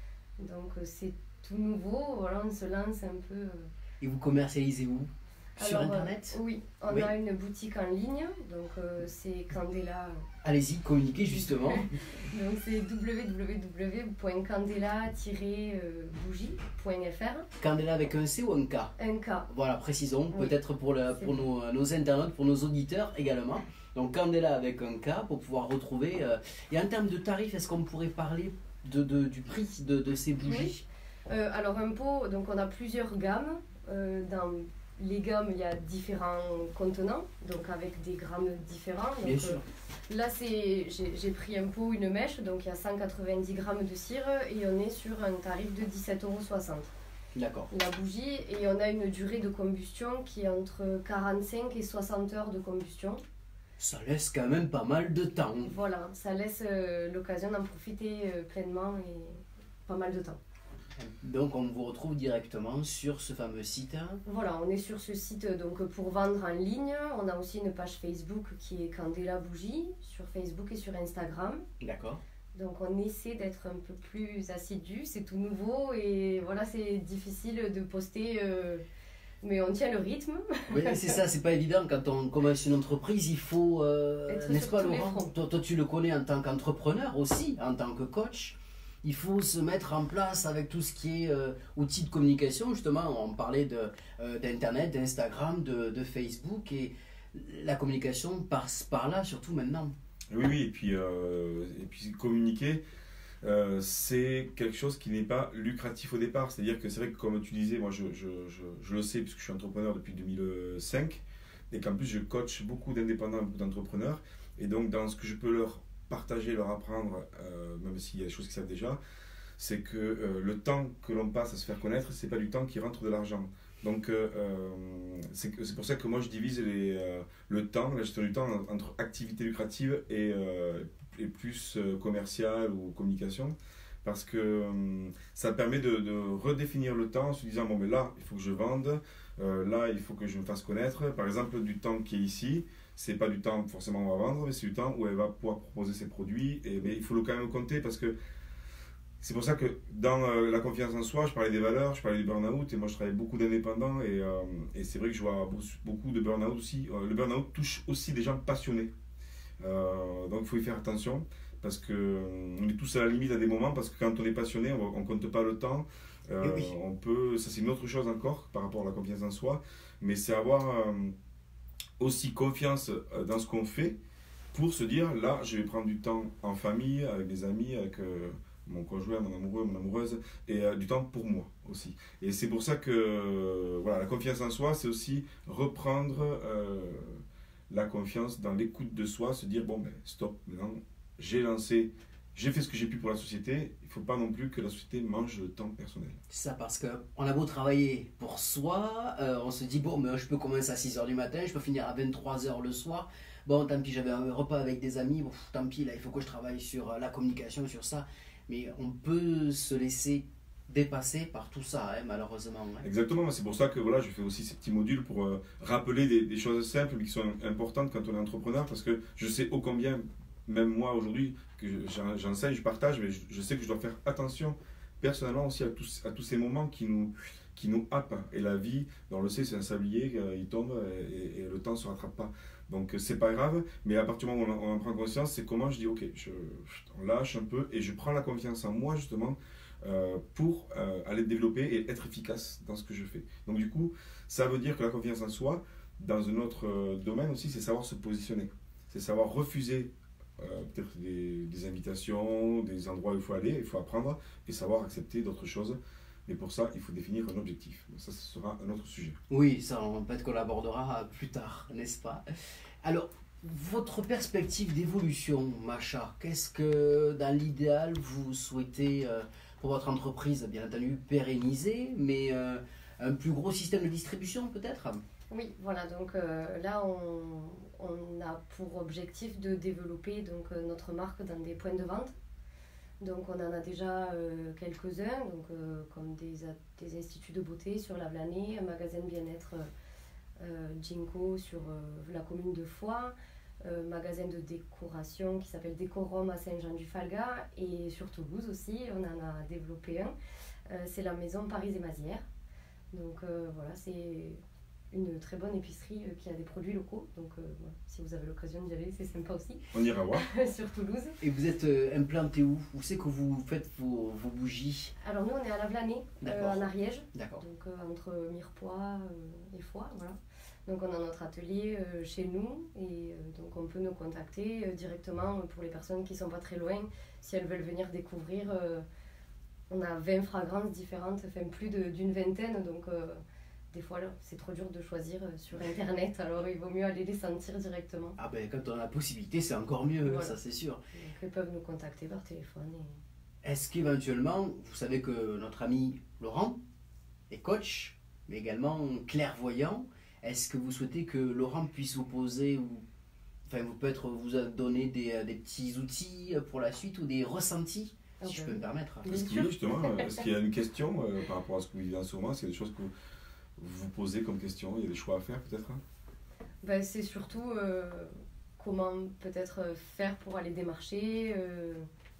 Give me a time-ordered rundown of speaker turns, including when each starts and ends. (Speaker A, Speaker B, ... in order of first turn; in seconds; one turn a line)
Speaker A: 0.4-3.7
Speaker B: 4.0-6.4
Speaker A: 5.6-10.2
Speaker B: 10.4-12.0
Speaker A: 11.7-17.5
Speaker B: 17.6-18.9
Speaker A: 19.0-19.5
Speaker B: 19.5-30.8
Speaker A: 20.3-20.6
Speaker A: 21.1-21.4
Speaker A: 30.4-30.7
Speaker A: 31.3-46.9
Speaker B: 39.2-39.6
Speaker B: 47.4-47.7
Speaker A: 47.7-53.2
Speaker B: 53.8-55.7
Speaker A: 55.6-60.4
Speaker B: 61.0-64.2
Speaker A: 64.2-71.6
Speaker B: 71.8-72.2
Speaker A: 72.5-78.8
Speaker A: 79.4-81.2
Speaker B: 80.7-99.9
Speaker A: 84.3-85.3
Speaker C: 100.3-102.8
Speaker C: 103.4-119.0
Speaker C: 119.6-148.1
Speaker C: 149.2-158.9
Speaker C: 159.6-171.1
Speaker B: 166.4-166.7
Speaker C: 172.0-174.0
Speaker C: 174.5-196.2
Speaker B: 196.3-212.9
Speaker C: 212.8-259.2
Speaker B: 259.3-275.0
Speaker A: 275.3-282.1
Speaker A: 283.0-289.7
Speaker A: 290.4-300.1
Speaker A: 300.7-302.2
Speaker A: 302.9-304.4
Speaker A: 304.9-311.2
Speaker C: 309.7-310.2
Speaker B: 311.2-314.9
Speaker A: 315.0-328.8
Speaker B: 316.2-317.4
Speaker A: 329.7-333.2
Speaker A: 333.7-338.1
Speaker B: 338.2-340.8
Speaker A: 340.0-340.3
Speaker A: 340.9-343.0
Speaker B: 343.4-346.6
Speaker B: 347.3-352.8
Speaker B: 353.5-359.1
Speaker A: 358.2-360.2
Speaker C: 359.1-362.9
Speaker C: 363.6-365.8
Speaker A: 366.6-371.9